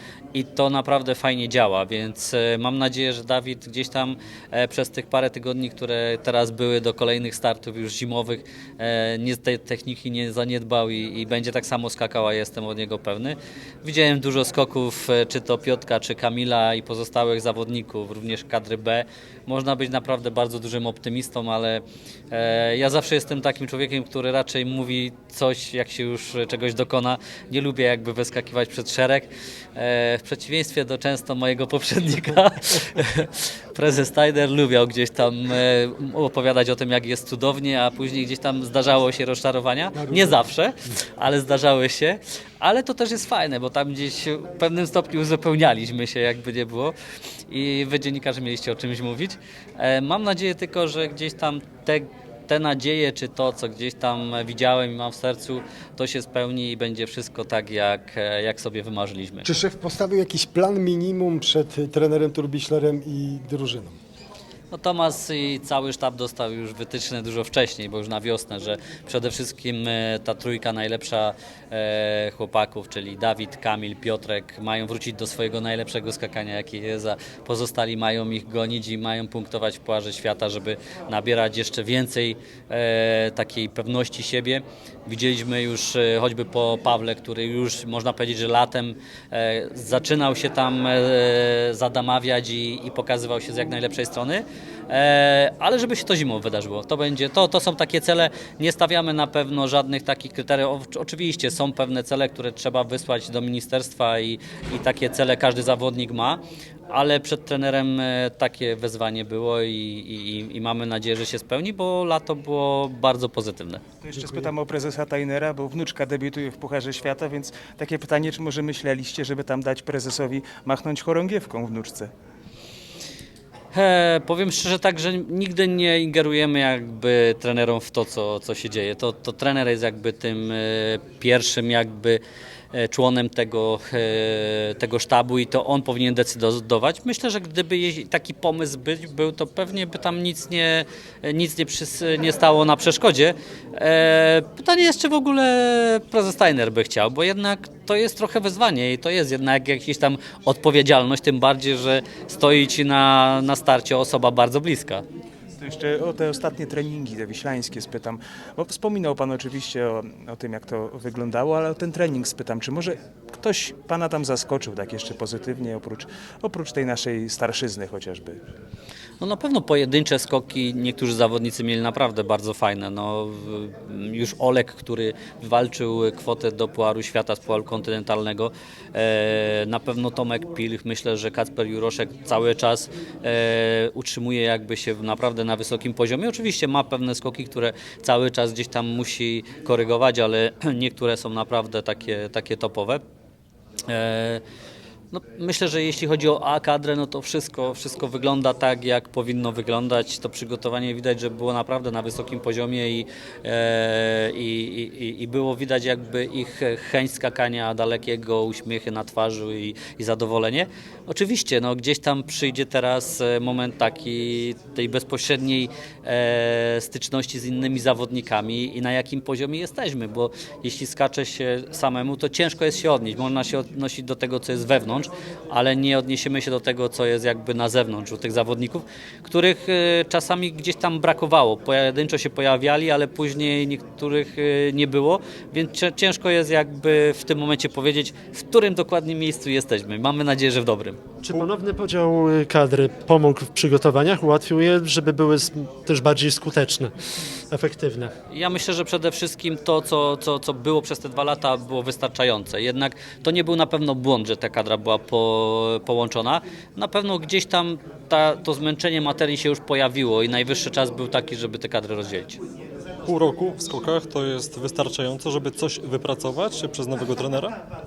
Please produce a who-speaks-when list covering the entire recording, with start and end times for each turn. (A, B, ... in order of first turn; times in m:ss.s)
0:00.3-0:47.0 A
0:40.0-0:40.4 B
0:47.5-0:59.5 A
0:59.4-1:04.0 B
1:04.7-1:53.8 A
1:54.0-2:02.1 C
2:03.7-2:12.2 A
2:12.7-2:35.0 A
2:35.6-2:48.4 C
2:49.2-3:13.0 A
3:13.9-3:14.4 A
3:15.1-4:01.0 A
4:01.2-4:06.9 D
4:07.5-4:08.1 D
4:08.3-4:22.4 A
4:23.1-4:27.6 E